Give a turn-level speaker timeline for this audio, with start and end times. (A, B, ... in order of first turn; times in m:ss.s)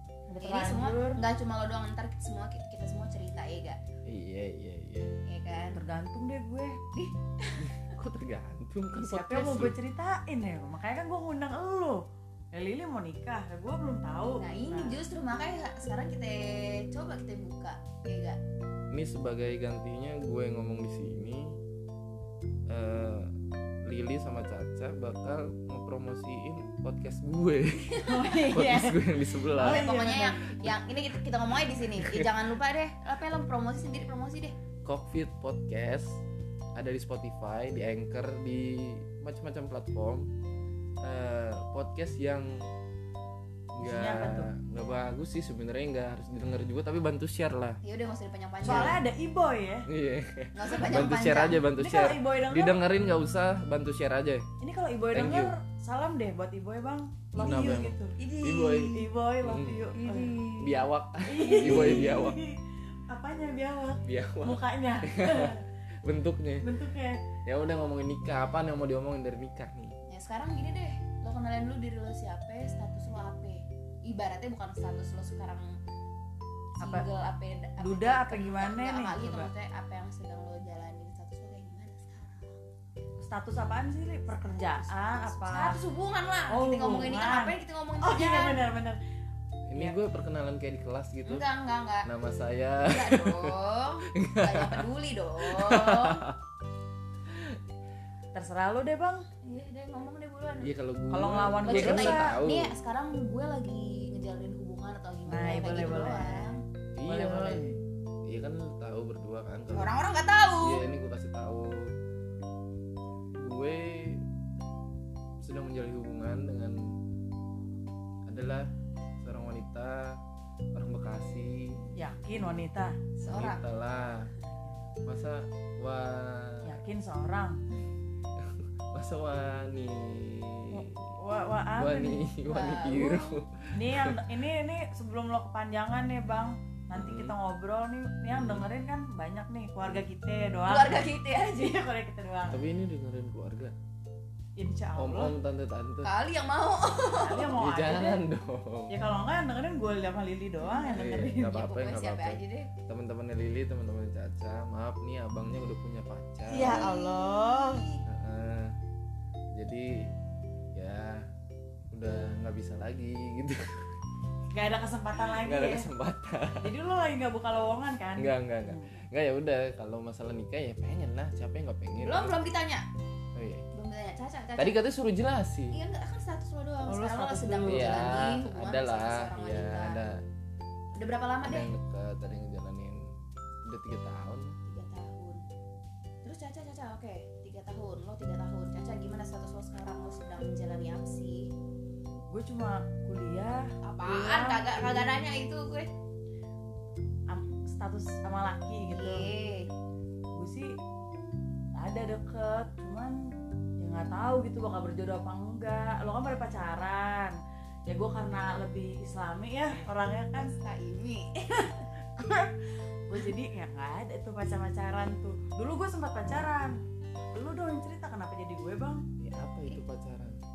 0:00.3-0:01.2 A
0:00.4-0:03.8 B
0:04.0-0:05.2 C
0:05.3-0:05.8 B
0:05.7-0:06.8 A
0:06.9-0:07.7 B
0:07.6-0:09.8 C
0:08.9-0:12.0 A
0:12.5-0:15.0 A
0:14.4-0:18.4 B
0:18.9-0:21.6 C
0:22.7-0:23.3 C
0:23.8-0:29.9 C
0:27.9-0:28.4 B
0:28.0-0:29.0 A
0:29.5-0:34.5 B
0:29.5-0:30.4 A
0:32.0-0:32.4 C
0:34.8-0:36.2 C
0:36.7-0:40.3 C
0:41.0-0:42.7 C
0:43.7-0:47.8 C
0:43.8-0:44.5 A
0:47.8-0:49.0 B
0:48.6-0:49.0 C
0:48.6-0:49.9 A
0:49.9-0:54.5 C
0:50.5-0:51.6 B
0:51.8-0:52.8 A
0:54.6-0:58.1 A
0:55.1-0:55.5 C
0:57.4-0:59.9 C
0:58.2-0:59.0 B
0:58.9-1:00.3 A
1:00.0-1:00.9 B
1:00.6-1:02.4 C
1:01.3-1:02.6 A
1:01.6-1:02.0 B
1:03.1-1:05.6 A
1:04.0-1:06.6 C
1:06.6-1:07.2 A
1:07.4-1:09.9 C
1:10.1-1:15.8 B
1:16.8-1:22.7 B
1:17.8-1:19.5 A
1:23.2-1:25.8 A
1:24.3-1:28.6 B
1:26.5-1:29.0 A
1:29.7-1:31.4 C
1:31.2-1:32.1 B
1:32.0-1:33.5 C
1:32.8-1:36.2 B
1:34.1-1:34.8 C
1:35.4-1:36.4 C
1:37.3-1:37.6 C
1:38.3-1:39.2 A
1:39.4-1:40.7 B
1:40.6-1:42.7 C
1:41.1-1:42.3 A
1:41.6-1:46.6 B
1:45.3-1:46.5 A
1:47.0-1:47.7 C
1:47.1-1:47.8 A
1:48.3-1:49.9 C
1:49.7-1:50.8 B
1:50.6-1:51.9 C
1:53.3-1:54.2 C
1:55.4-1:56.9 C
1:58.3-1:58.7 C
1:59.2-2:00.2 C
2:00.7-2:02.6 C
2:01.9-2:03.0 A
2:03.2-2:03.6 B
2:03.2-2:04.3 C
2:05.0-2:06.8 C
2:06.6-2:07.6 A
2:08.4-2:11.2 C
2:10.7-2:12.2 A
2:11.8-2:14.2 C
2:12.5-2:13.4 B
2:13.7-2:22.6 A
2:16.9-2:17.3 C
2:18.3-2:18.6 C
2:20.6-2:21.8 B
2:22.5-2:23.7 C
2:24.6-2:25.3 A
2:25.0-2:26.1 C
2:26.0-2:27.5 B
2:27.1-2:28.2 A
2:27.6-2:28.9 C
2:28.9-2:31.5 A
2:30.6-2:32.7 B
2:30.9-2:36.9 C
2:36.5-2:37.8 A
2:36.5-2:38.0 B
2:38.0-2:38.7 C
2:39.6-2:40.1 C
2:40.7-2:41.3 C
2:41.9-2:43.8 C
2:44.5-2:45.9 A
2:45.3-2:46.7 C
2:46.6-2:48.9 A
2:48.2-2:52.4 C
2:52.0-2:52.8 B
2:53.4-2:53.6 C
2:53.7-2:54.8 B
2:54.6-2:55.8 C
2:55.7-3:00.0 B
2:56.9-2:58.1 A
2:57.7-3:00.2 C
3:00.9-3:01.7 B
3:01.4-3:03.0 C
3:03.7-3:04.5 C
3:04.7-3:05.4 B
3:06.2-3:11.5 B
3:12.3-3:15.2 A
3:13.8-3:15.9 B
3:17.3-3:19.3 A
3:18.9-3:19.7 B
3:20.4-3:20.7 A
3:21.7-3:23.2 A
3:23.8-3:30.5 A
3:30.4-3:31.9 B
3:31.6-3:36.8 A
3:37.3-3:39.0 A
3:39.2-3:40.4 C